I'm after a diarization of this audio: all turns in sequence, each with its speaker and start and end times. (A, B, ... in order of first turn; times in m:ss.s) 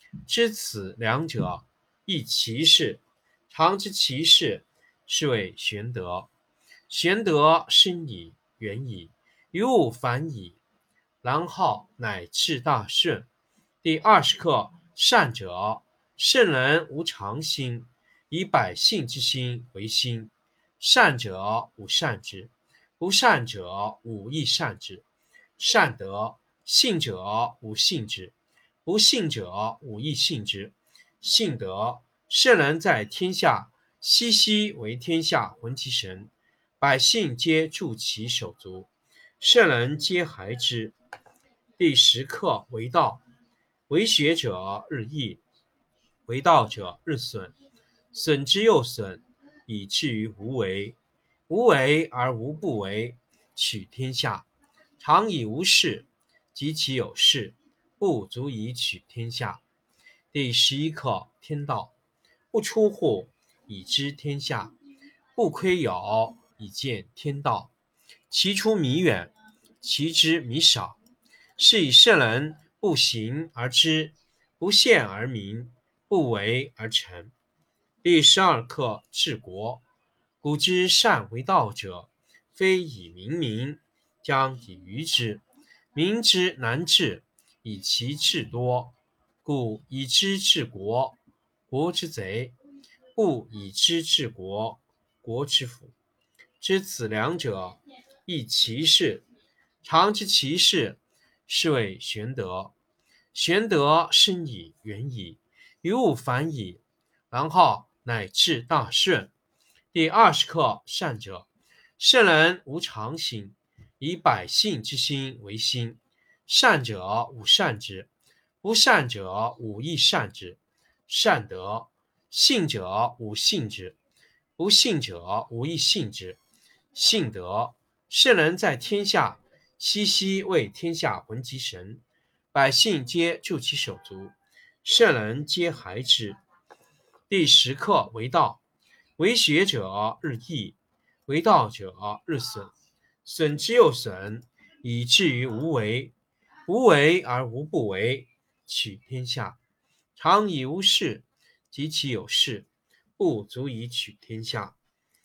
0:00.2-0:06.3 A
0:06.9-0:10.6 A
0:11.2-0:13.3 A
0:13.8-0:25.0 A
0:25.6-0:28.3 A
0:28.8-0:40.9 A
0:41.8-0:43.2 A
0:43.9-0:45.4 A
0:46.3-0:47.5 A
0:48.1-0:51.0 A
0:51.5-0:54.5 A
0:55.0-0:59.6 A
1:00.3-1:01.9 A
1:02.5-1:04.7 A
1:05.4-1:07.7 A
1:08.3-1:11.0 A
1:11.6-1:17.3 A
1:18.0-1:19.8 A
1:20.4-1:31.2 A
1:31.7-1:32.6 A
1:33.1-1:35.9 A
1:36.6-1:39.2 A
1:39.8-1:42.7 A
1:43.3-1:49.3 A
1:49.9-1:51.5 A
1:52.0-1:58.1 A
1:58.6-2:04.0 A
2:04.6-2:06.4 A
2:06.9-2:16.4 A
2:17.3-2:18.6 A
2:19.2-2:22.7 A
2:23.2-2:26.1 A
2:26.7-2:29.6 A
2:30.2-2:34.7 A